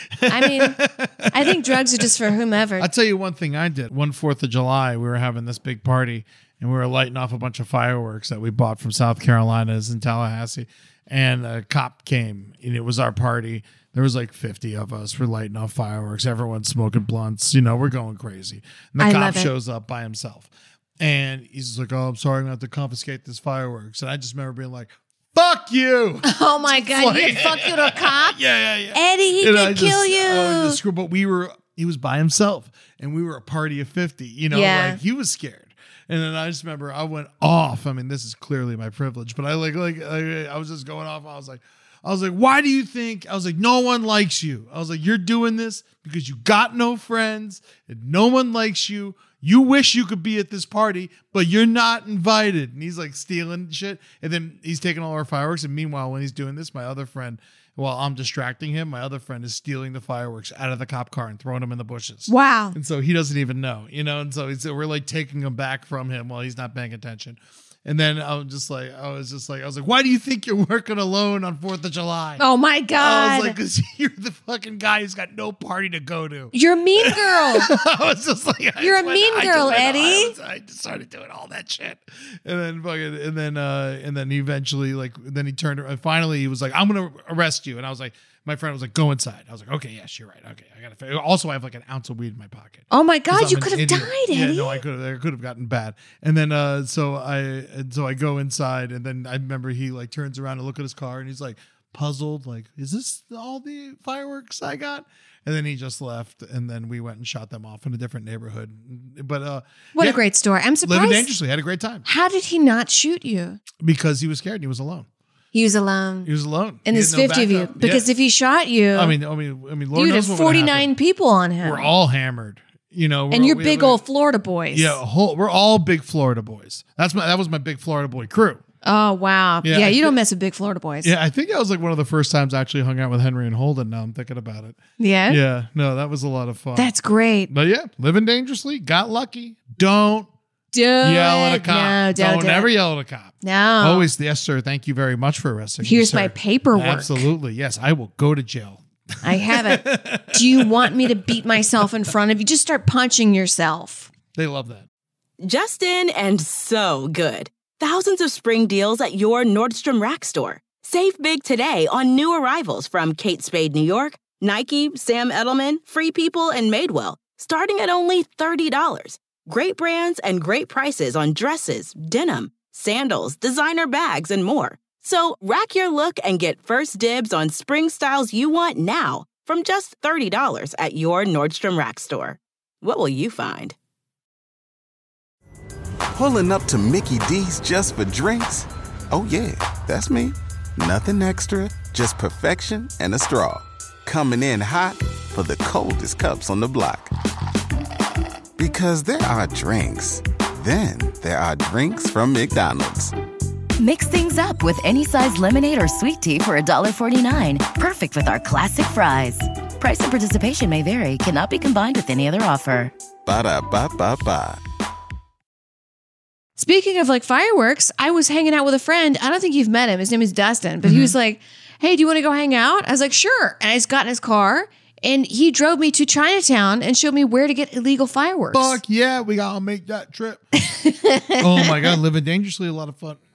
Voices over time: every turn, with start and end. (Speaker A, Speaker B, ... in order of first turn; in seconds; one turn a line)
Speaker A: 0.2-2.1
Speaker B: 0.3-0.8
Speaker B: 1.3-2.9
Speaker A: 2.8-72.4
Speaker B: 19.0-19.5
Speaker B: 26.2-28.4
Speaker B: 28.9-30.8
Speaker B: 34.5-35.0
Speaker B: 62.3-62.8
Speaker B: 72.4-73.6
Speaker A: 73.0-110.2
Speaker B: 76.5-77.7
Speaker B: 78.8-80.3
Speaker B: 92.9-94.8
Speaker B: 110.0-111.3
Speaker A: 110.8-112.0
Speaker B: 112.0-113.6
Speaker A: 113.8-115.1
Speaker B: 115.5-116.3
Speaker A: 116.2-118.1
Speaker B: 116.8-119.2
Speaker A: 118.9-120.9
Speaker B: 119.9-121.9
Speaker A: 121.6-124.0
Speaker B: 123.3-125.0
Speaker A: 124.7-128.6
Speaker B: 128.8-131.1
Speaker A: 129.6-130.2
Speaker A: 131.0-136.9
Speaker B: 135.0-135.4
Speaker B: 136.8-137.5
Speaker A: 137.5-140.3
Speaker B: 140.7-142.7
Speaker A: 141.0-151.8
Speaker B: 143.4-144.1
Speaker B: 145.8-147.3
Speaker B: 149.2-154.1
Speaker A: 154.3-154.9
Speaker C: 155.4-183.8
Speaker D: 186.1-197.1
Speaker D: 198.6-203.1
Speaker E: 203.8-212.9
Speaker D: 213.2-214.6
Speaker B: 216.6-228.8
Speaker A: 220.8-221.1
Speaker A: 228.5-230.4
Speaker B: 230.6-232.0
Speaker A: 231.4-233.2